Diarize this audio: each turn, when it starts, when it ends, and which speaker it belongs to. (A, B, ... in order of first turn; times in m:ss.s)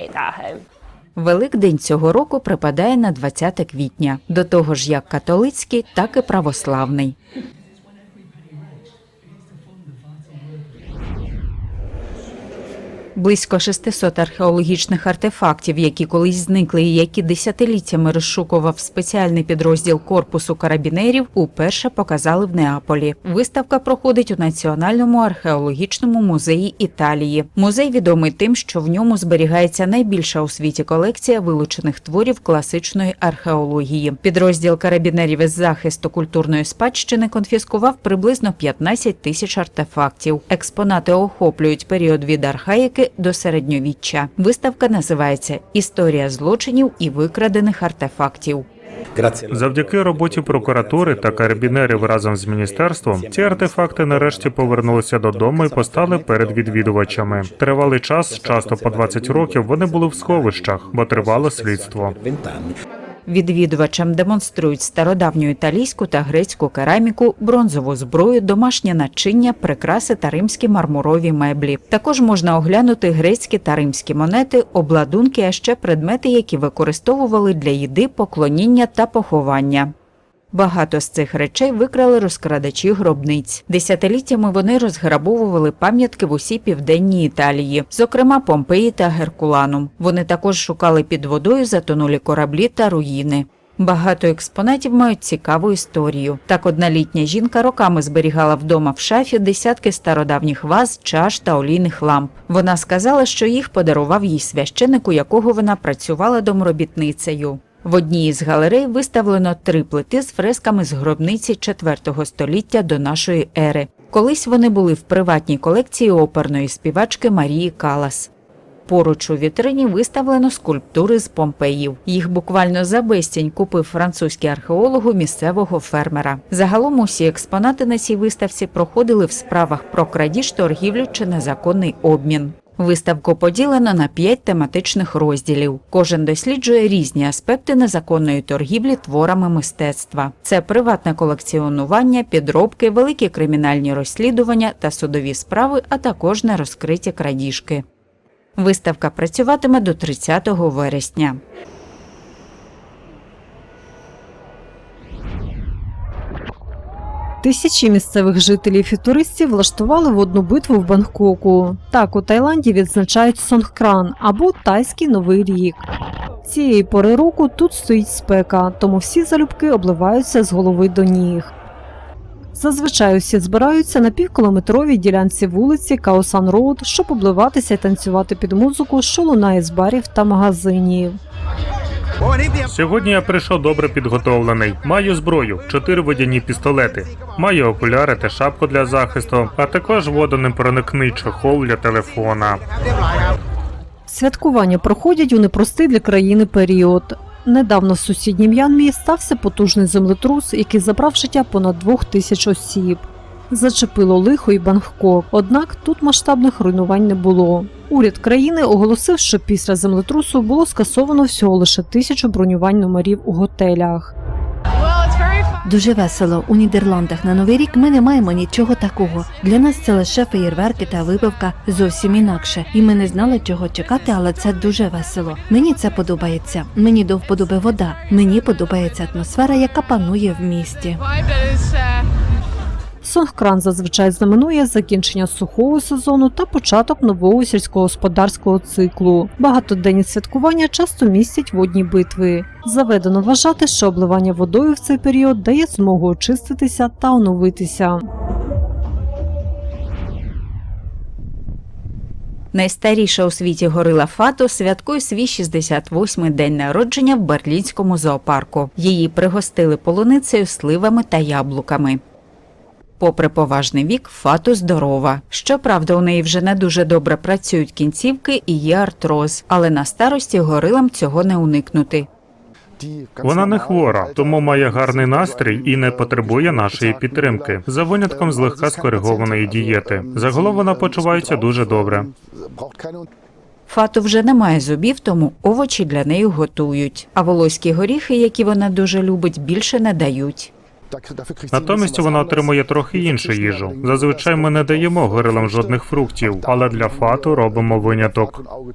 0:01.2-0:07.2 A
0:13.2-0:48.7 A
0:49.5-1:02.2 B
1:03.3-1:19.9 A
1:20.5-1:58.3 A
1:58.9-2:27.8 A
2:28.6-2:31.4 A
2:37.4-2:45.8 C
2:46.4-2:51.5 C
2:52.6-3:01.2 C
3:02.7-3:12.6 B
3:14.1-3:34.1 C
3:35.6-3:51.0 D
3:53.0-4:08.0 C
4:12.5-4:22.0 A
4:23.0-4:32.1 A
4:33.2-4:42.1 B
4:43.7-4:50.5 A
4:51.5-4:58.4 B